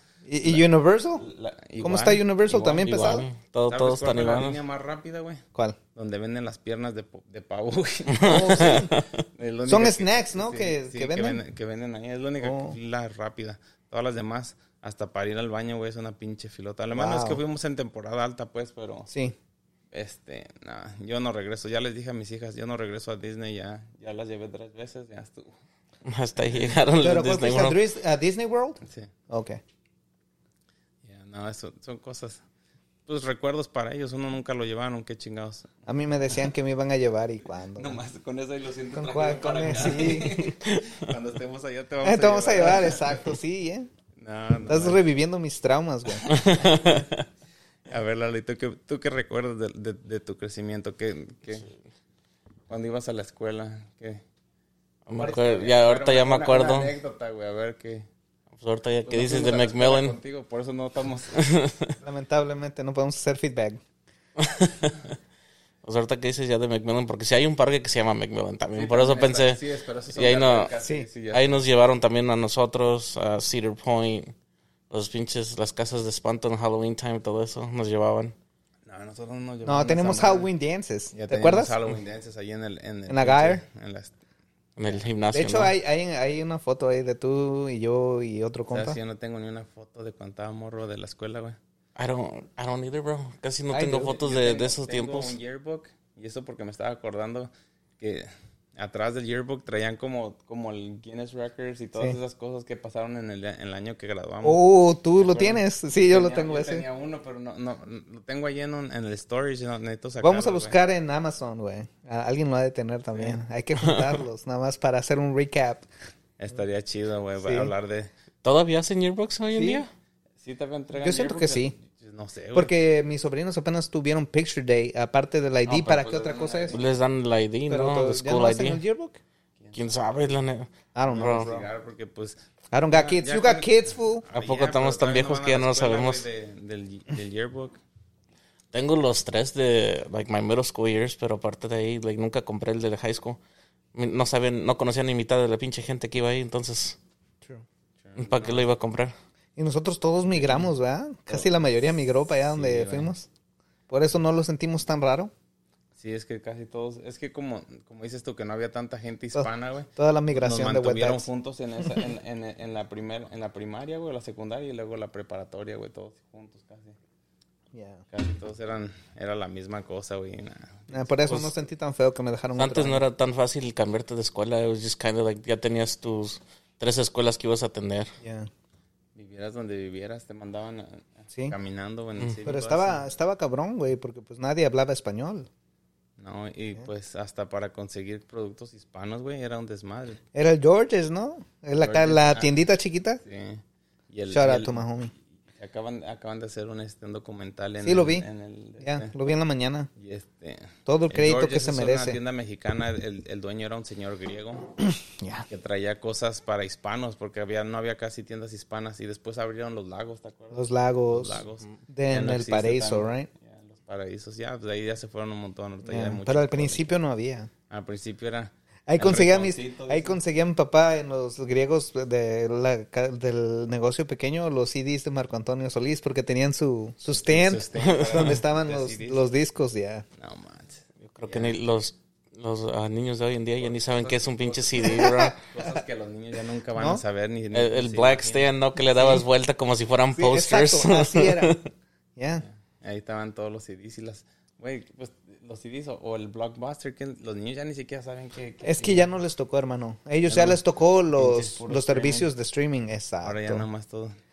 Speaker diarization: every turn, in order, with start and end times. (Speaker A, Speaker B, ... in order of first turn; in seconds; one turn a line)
Speaker A: 0.3-1.2
Speaker B: 0.4-5.4
Speaker A: 1.8-3.3
Speaker C: 2.8-4.6
Speaker B: 5.9-19.1
Speaker C: 8.2-9.0
Speaker A: 8.2-8.9
Speaker A: 9.7-11.4
Speaker A: 12.4-12.8
Speaker A: 16.9-17.4
Speaker B: 19.9-25.6
Speaker C: 26.0-27.8
Speaker A: 27.0-29.6
Speaker B: 28.8-29.1
Speaker B: 31.0-32.4
Speaker B: 33.1-35.7
Speaker A: 35.9-38.0
Speaker B: 37.7-43.3
Speaker A: 38.9-40.5
Speaker A: 42.0-43.9
Speaker B: 44.1-45.0
Speaker A: 44.7-46.4
Speaker C: 46.2-47.2
Speaker B: 46.4-46.7
Speaker B: 47.9-51.7
Speaker B: 52.7-54.2
Speaker C: 55.1-56.9
Speaker B: 55.1-58.1
Speaker C: 58.6-60.1
Speaker B: 59.0-61.5
Speaker C: 61.4-61.9
Speaker A: 62.0-63.8
Speaker C: 64.4-65.1
Speaker C: 65.8-69.6
Speaker B: 68.7-71.6
Speaker C: 70.1-70.7
Speaker C: 71.3-74.3
Speaker C: 74.9-78.3
Speaker B: 78.8-80.5
Speaker A: 79.6-81.8
Speaker B: 81.1-84.2
Speaker A: 83.1-83.6
Speaker C: 84.8-85.7
Speaker A: 85.3-89.0
Speaker B: 88.7-91.6
Speaker C: 92.0-95.4
Speaker A: 93.7-94.1
Speaker B: 94.0-104.6
Speaker A: 104.4-106.8
Speaker B: 105.2-110.8
Speaker A: 110.2-115.8
Speaker C: 113.8-114.2
Speaker B: 116.4-118.1
Speaker A: 117.4-117.7
Speaker C: 118.4-119.9
Speaker A: 119.5-119.8
Speaker B: 120.4-122.7
Speaker A: 121.0-121.7
Speaker A: 122.5-126.8
Speaker B: 125.7-126.8
Speaker C: 126.7-128.8
Speaker A: 127.7-129.2
Speaker B: 129.6-130.0
Speaker C: 129.7-131.5
Speaker A: 130.9-131.7
Speaker B: 131.1-137.8
Speaker A: 132.7-134.2
Speaker C: 134.3-136.2
Speaker C: 138.7-143.4
Speaker C: 143.9-147.0
Speaker B: 148.0-148.7
Speaker C: 148.2-149.1
Speaker A: 149.6-153.3
Speaker B: 150.3-150.7
Speaker B: 152.5-153.1
Speaker A: 153.9-155.3
Speaker B: 155.9-167.0
Speaker A: 159.3-161.3
Speaker A: 167.7-168.0
Speaker B: 168.1-171.4
Speaker A: 170.9-173.0
Speaker C: 172.6-178.1
Speaker A: 178.2-178.5
Speaker B: 179.1-183.0
Speaker A: 182.4-185.5
Speaker B: 186.2-190.2
Speaker A: 190.3-193.2
Speaker B: 191.8-192.5
Speaker B: 193.2-194.8
Speaker A: 194.3-195.1
Speaker B: 195.5-199.1
Speaker A: 197.8-198.2
Speaker A: 198.8-199.9
Speaker B: 199.9-204.7
Speaker A: 200.8-202.2
Speaker A: 204.9-205.4
Speaker B: 205.5-216.9
Speaker A: 210.5-213.3
Speaker A: 215.8-217.5
Speaker B: 217.7-220.2
Speaker A: 218.9-230.0
Speaker B: 227.1-229.2
Speaker C: 227.8-228.4
Speaker B: 230.2-231.6
Speaker C: 231.0-235.4
Speaker B: 233.6-238.5
Speaker A: 234.9-235.3
Speaker A: 236.7-237.0
Speaker C: 237.5-241.7
Speaker A: 238.9-239.2
Speaker A: 240.1-241.6
Speaker A: 242.2-242.4
Speaker B: 242.4-249.1
Speaker A: 248.6-253.6
Speaker B: 250.2-252.3
Speaker B: 253.2-254.2